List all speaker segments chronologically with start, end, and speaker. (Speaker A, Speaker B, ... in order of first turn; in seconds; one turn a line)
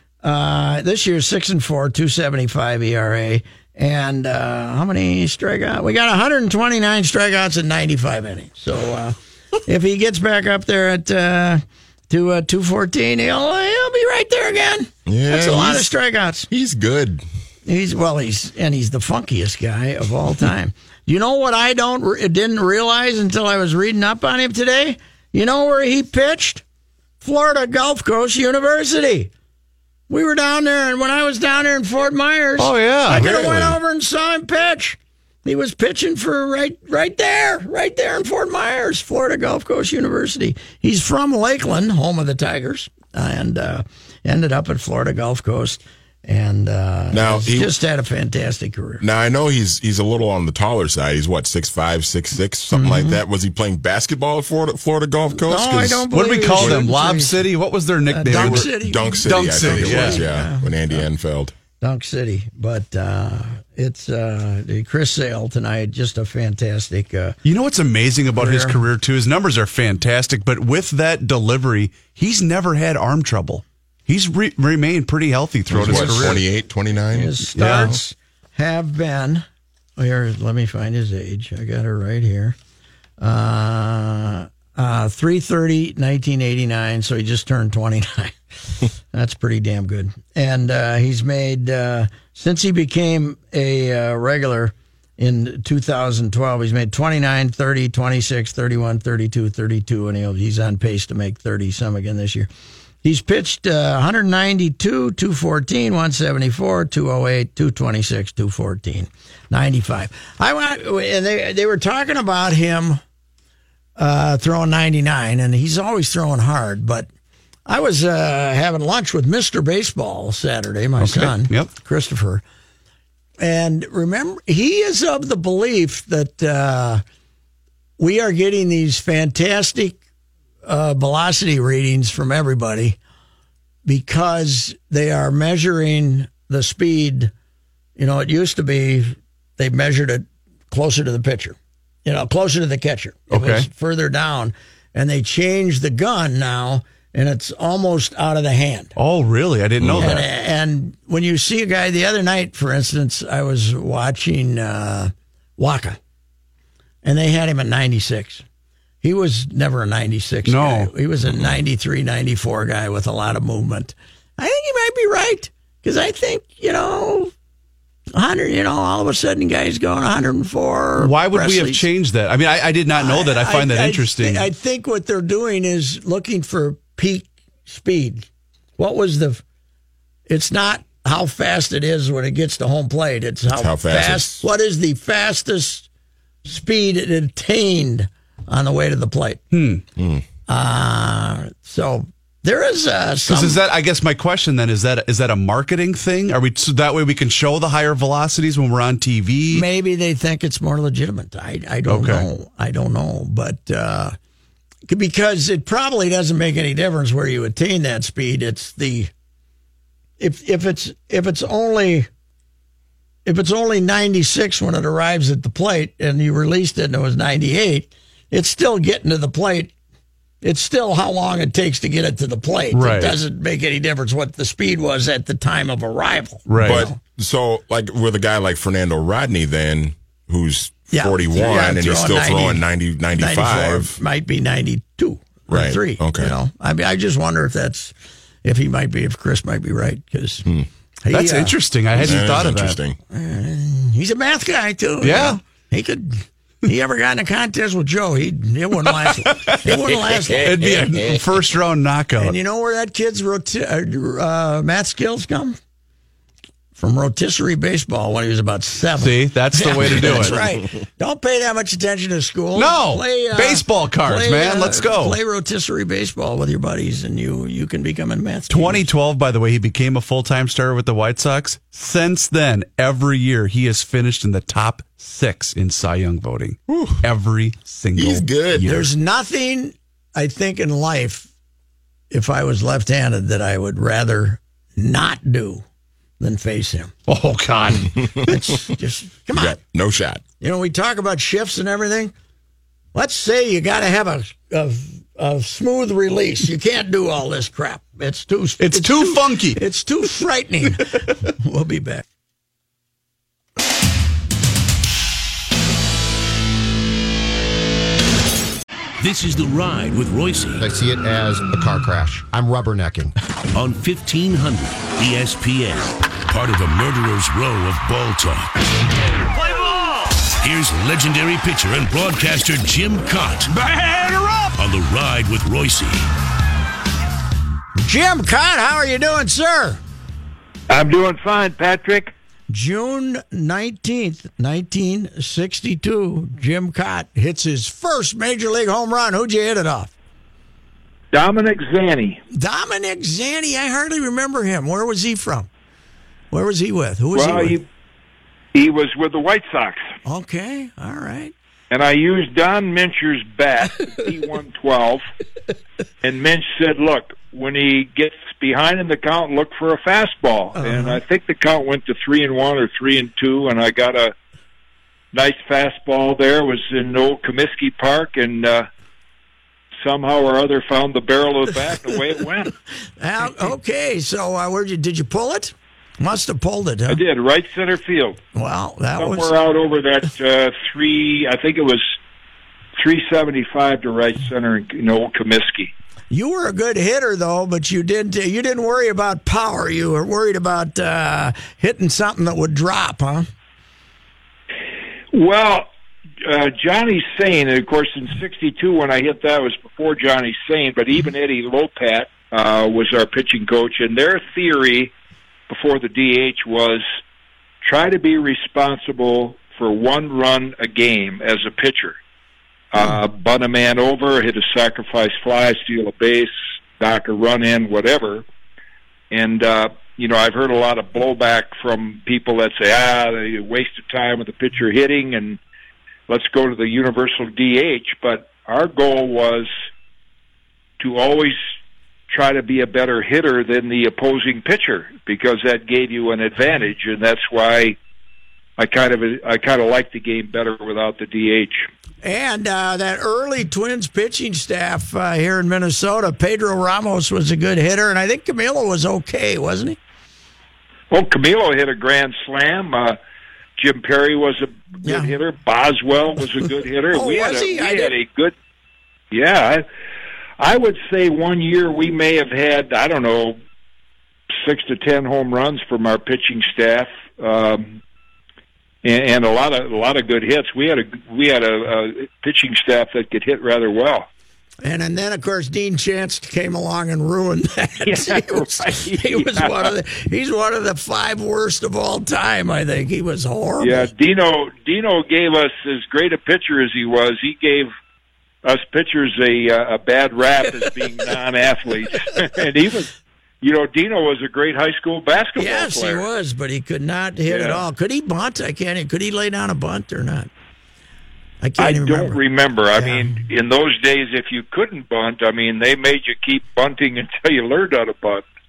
Speaker A: 0.2-16.5
Speaker B: 15.1-15.9
Speaker B: 16.5-17.2
Speaker A: 17.6-26.6
Speaker A: 27.2-29.3
Speaker A: 30.1-49.0
Speaker C: 32.6-33.7
Speaker B: 33.1-33.6
Speaker B: 47.1-47.7
Speaker B: 49.0-56.8
Speaker A: 52.7-53.2
Speaker A: 55.5-57.5
Speaker C: 56.1-60.3
Speaker A: 58.1-61.0
Speaker B: 58.3-61.5
Speaker A: 61.8-67.4
Speaker C: 67.4-76.5
Speaker A: 68.3-68.8
Speaker B: 75.7-77.9
Speaker A: 75.8-76.4
Speaker A: 77.1-79.5
Speaker C: 77.5-77.9
Speaker A: 80.0-82.5
Speaker A: 83.2-102.5
Speaker A: 103.0-113.0
Speaker A: 114.0-117.1
Speaker A: 117.7-122.4
Speaker C: 121.0-121.7
Speaker A: 123.4-127.0
Speaker A: 128.0-130.0
Speaker A: 130.6-133.0
Speaker A: 133.8-137.3
Speaker A: 137.9-148.9
Speaker C: 143.3-143.7
Speaker C: 149.0-150.2
Speaker B: 149.8-150.2
Speaker A: 150.0-156.0
Speaker A: 157.0-158.4
Speaker A: 159.0-167.3
Speaker C: 160.5-160.9
Speaker A: 168.1-171.8
Speaker C: 171.0-174.4
Speaker A: 172.9-179.4
Speaker A: 180.3-185.9
Speaker B: 183.5-184.4
Speaker A: 186.4-189.4
Speaker C: 189.5-189.8
Speaker B: 190.0-190.2
Speaker A: 190.5-193.6
Speaker C: 193.3-199.7
Speaker A: 199.5-204.2
Speaker C: 201.9-202.2
Speaker A: 204.9-209.1
Speaker A: 210.2-212.1
Speaker A: 213.2-219.7
Speaker A: 220.4-227.0
Speaker C: 222.7-223.2
Speaker C: 226.5-226.9
Speaker B: 226.6-234.0
Speaker A: 230.9-232.6
Speaker A: 233.1-240.4
Speaker B: 235.5-236.3
Speaker A: 241.0-241.5
Speaker C: 241.1-242.8
Speaker B: 241.9-243.0
Speaker A: 243.1-251.0
Speaker C: 245.0-245.4
Speaker C: 248.9-252.3
Speaker A: 252.2-255.6
Speaker A: 256.8-268.9
Speaker C: 259.0-260.4
Speaker C: 262.6-265.2
Speaker C: 268.5-278.9
Speaker B: 277.9-278.8
Speaker A: 278.6-281.3
Speaker A: 282.1-285.6
Speaker A: 286.2-287.0
Speaker C: 287.1-287.9
Speaker B: 288.0-288.2
Speaker A: 288.2-289.6
Speaker B: 289.3-290.2
Speaker A: 290.4-292.1
Speaker A: 292.9-302.0
Speaker C: 298.6-299.6
Speaker D: 309.0-310.6
Speaker E: 310.6-313.1
Speaker D: 313.5-318.5
Speaker D: 320.4-323.5
Speaker D: 324.5-326.0
Speaker A: 327.8-329.8
Speaker F: 330.7-332.1
Speaker A: 332.5-339.9
Speaker F: 341.1-342.2
Speaker A: 342.3-345.5
Speaker A: 346.3-347.6
Speaker F: 347.1-347.6
Speaker F: 348.5-349.8
Speaker A: 350.0-351.3
Speaker F: 351.7-355.0
Speaker F: 356.0-364.1
Speaker A: 360.6-361.0
Speaker F: 365.1-368.7
Speaker F: 369.8-372.5
Speaker A: 373.0-377.0
Speaker F: 376.9-378.2
Speaker A: 378.3-379.3
Speaker F: 379.0-381.9
Speaker F: 382.8-385.7
Speaker A: 386.1-393.3
Speaker F: 395.1-395.7
Speaker F: 396.2-404.9
Speaker F: 405.5-406.8
Speaker F: 407.6-412.0
Speaker F: 412.7-418.2
Speaker F: 419.1-425.4
Speaker F: 426.1-429.5
Speaker F: 430.8-431.4
Speaker F: 432.1-437.8
Speaker F: 438.6-441.7
Speaker A: 442.0-449.8
Speaker F: 450.9-453.0
Speaker F: 453.6-458.3
Speaker A: 454.8-455.1
Speaker A: 456.9-457.9
Speaker F: 459.1-459.6
Speaker F: 460.4-463.4
Speaker F: 464.3-467.8
Speaker F: 468.8-474.1
Speaker A: 474.6-483.9
Speaker F: 477.8-479.7
Speaker F: 483.6-487.7
Speaker F: 488.4-496.1
Speaker A: 495.4-500.3
Speaker F: 497.3-497.6
Speaker A: 501.4-502.2
Speaker F: 501.6-508.2
Speaker A: 502.8-503.1